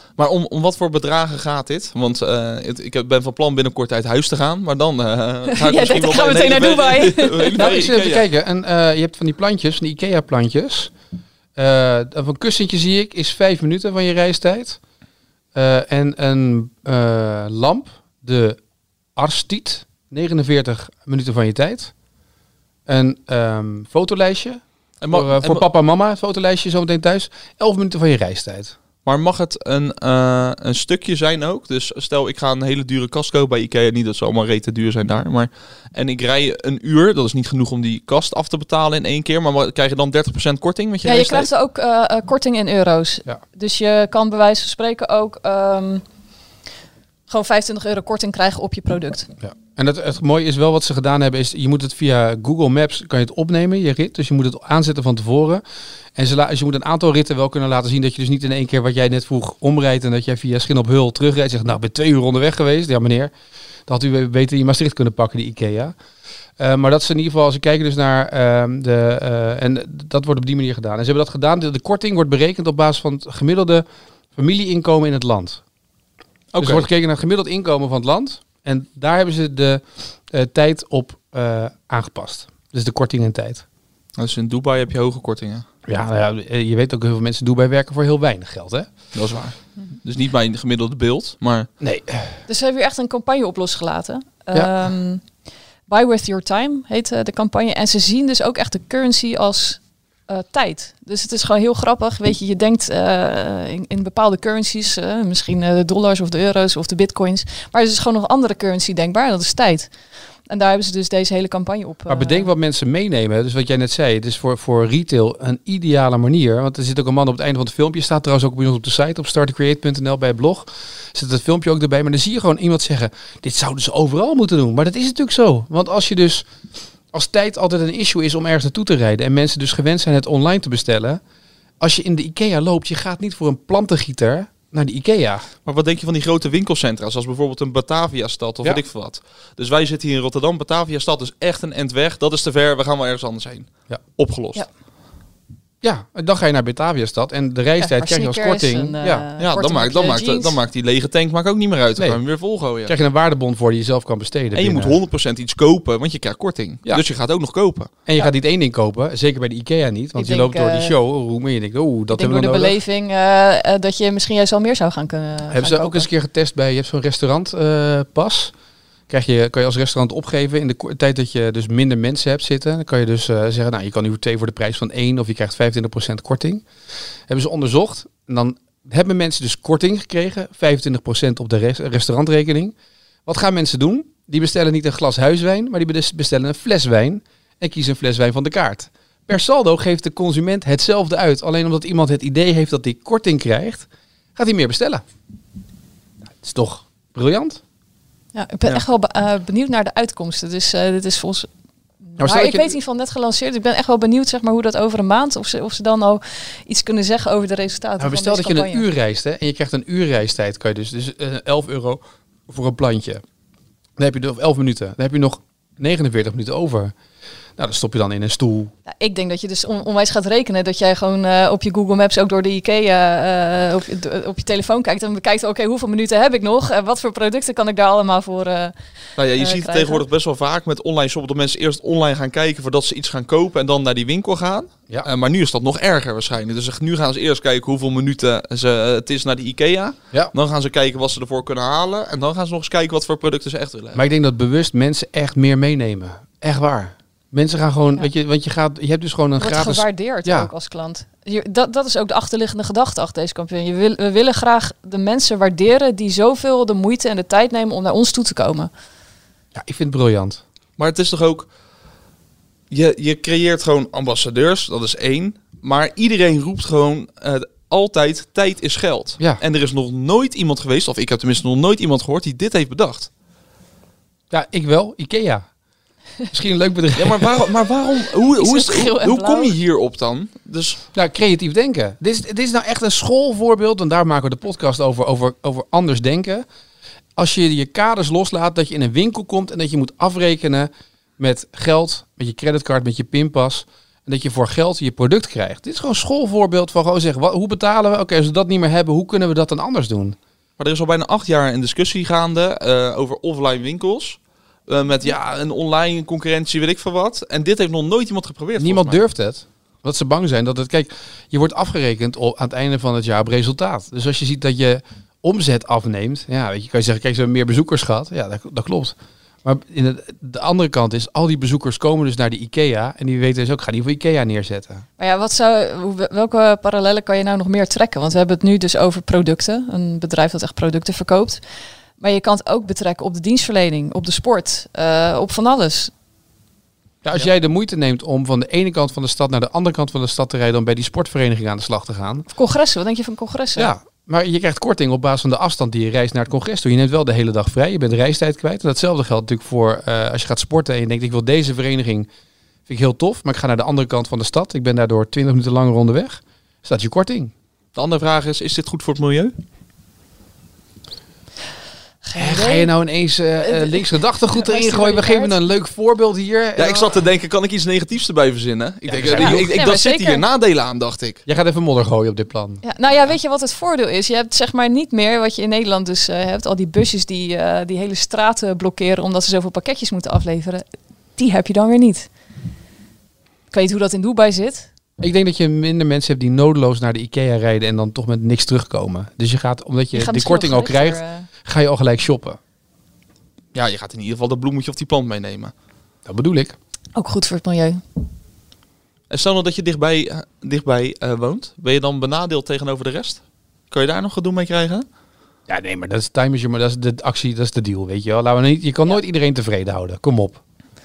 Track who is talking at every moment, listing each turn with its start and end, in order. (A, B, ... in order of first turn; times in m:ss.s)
0:00.2-0:08.3 A
0:05.5-0:07.8 B
0:07.6-0:10.9 C
0:11.6-0:14.8 C
0:15.5-0:18.6 C
0:19.2-0:21.9 C
0:22.9-0:28.7 C
0:25.0-0:25.7 A
0:29.0-0:41.5 A
0:41.0-0:46.0 B
0:47.3-0:49.3 B
0:49.4-0:55.6 C
0:56.2-1:03.3 C
1:03.9-1:05.9 C
1:06.6-1:13.8 C
1:14.3-1:15.6 C
1:16.5-1:16.9 A
1:16.6-1:23.6 C
1:24.2-1:25.6 A
1:25.8-1:28.9 C
1:29.1-1:31.7 A
1:31.8-1:32.3 C
1:32.5-1:35.2 B
1:35.9-1:49.9 B
1:50.5-1:52.5 B
1:52.1-2:06.4 C
2:07.1-2:11.2 C
2:11.8-2:15.5 C
2:15.6-2:24.6 A
2:25.8-2:29.2 C
2:27.8-2:30.6 B
2:29.4-2:32.9 A
2:32.8-2:35.0 C
2:34.5-2:37.9 A
2:38.0-2:42.8 C
2:40.1-2:40.9 B
2:42.1-2:46.1 B
2:45.5-2:48.5 C
2:49.1-2:56.6 C
2:57.3-3:02.7 C
3:03.2-3:15.0 C
3:16.3-3:17.6 C
3:18.3-3:21.5 B
3:22.1-3:28.8 B
3:22.2-3:22.8 C
3:28.0-3:33.2 C
3:34.0-3:36.9 C
3:37.6-3:38.7 C
3:38.9-3:48.7 B
3:49.2-4:04.1 A
3:49.4-3:50.0 B
4:03.9-4:10.5 C
4:09.4-4:18.7 B
4:19.5-4:20.4 C
4:20.8-4:21.5 A
4:22.7-4:33.1 A
4:34.3-4:35.4 C
4:36.3-4:37.5 C
4:36.9-4:40.8 A
4:38.4-4:39.5 B
4:40.9-4:46.4 C
4:47.2-5:00.2 C
5:00.6-5:09.0 A
5:08.6-5:24.8 C
5:25.0-5:31.4 B
5:32.0-5:35.9 B
5:37.0-5:42.3 C
5:42.3-5:43.7 B
5:43.6-5:52.1 C
5:52.7-5:57.3 C
5:57.7-5:59.3 A
6:02.0-6:02.7 B
6:02.2-6:07.0 C
6:03.4-6:05.5 B
6:06.6-6:11.2 A
6:08.8-6:09.5 C
6:09.1-6:10.2 B
6:11.2-6:12.6 C
6:12.6-6:20.6 B
6:21.2-6:22.1 B
6:23.5-6:24.7 B
6:25.0-6:32.4 C
6:29.9-6:31.3 B
6:33.5-6:35.5 A
6:36.0-6:36.5 C
6:37.0-6:37.8 B
6:39.1-6:44.8 A
6:45.5-6:50.4 C